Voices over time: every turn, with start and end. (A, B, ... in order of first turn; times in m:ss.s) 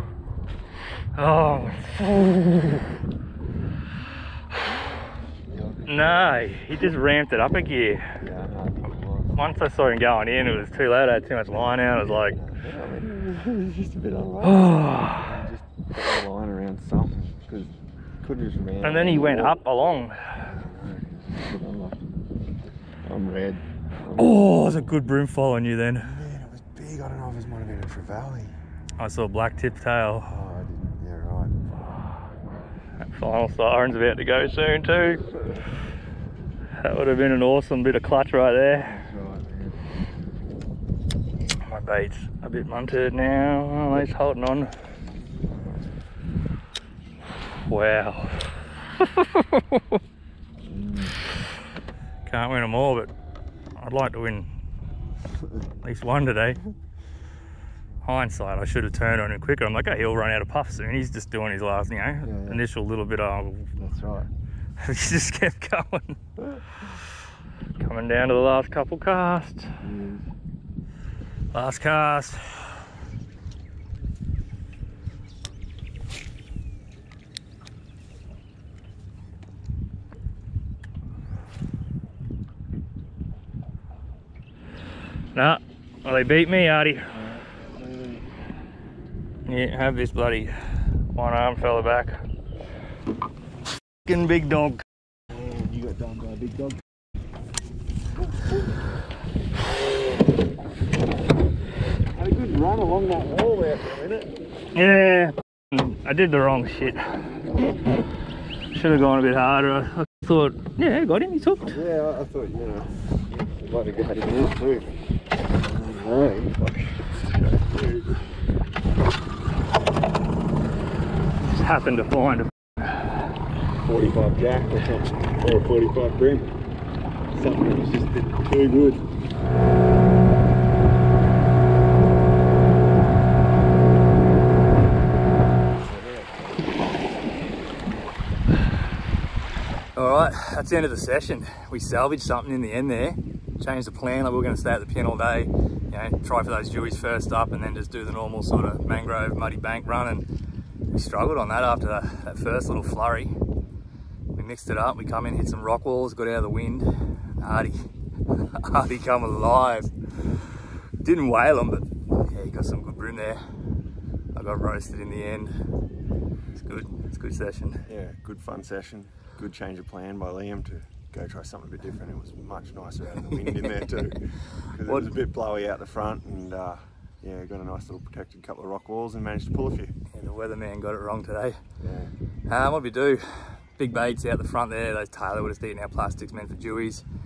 0:01.2-0:02.9 A
0:05.5-0:06.6 B
0:05.9-0:08.1 A
0:08.2-0:09.4 B
0:09.4-0:12.4 A
0:11.5-0:19.6 B
0:14.4-0:15.3 A
0:18.8-0:20.4 A
0:20.4-0:22.0 B
0:23.0-0:24.9 B
0:24.2-0:26.2 A
0:26.0-0:28.6 B
0:29.0-0:30.4 A
0:30.3-0:31.9 B
0:33.1-0:35.2 A
0:36.8-0:39.0 A
0:38.7-0:39.9 B
0:41.6-0:44.7 A
0:47.7-0:50.0 A
0:50.6-0:51.2 B
0:52.3-0:53.1 A
0:53.8-0:54.5 A
0:55.8-0:56.6 A
0:58.0-1:03.8 A
1:02.2-1:02.6 B
1:03.8-1:04.3 B
1:04.8-1:06.2 A
1:07.8-1:09.7 A
1:09.8-1:10.3 B
1:11.5-1:12.8 A
1:25.4-1:27.1 A
1:27.1-1:28.3 B
1:29.5-1:30.6 A
1:31.2-1:32.2 A
1:34.1-1:34.8 A
1:35.3-1:36.8 B
1:42.1-1:44.3 B
1:44.7-1:47.0 A
1:48.7-1:51.8 A
1:51.7-1:55.0 B
1:55.6-1:58.1 B
2:01.4-2:02.5 A
2:03.8-2:06.5 B
2:07.3-2:09.1 B
2:15.7-2:17.1 B
2:20.0-2:30.3 A
2:30.9-2:33.3 A
2:34.4-2:36.9 A
2:37.4-2:37.8 A
2:38.6-2:40.3 A
2:41.0-2:43.4 A
2:44.3-2:45.6 A
2:46.6-2:47.8 A
2:47.9-2:59.9 B
2:53.3-2:53.9 A
2:54.5-2:55.1 A
3:00.1-3:01.6 A
3:01.8-3:02.2 B
3:02.5-3:07.0 A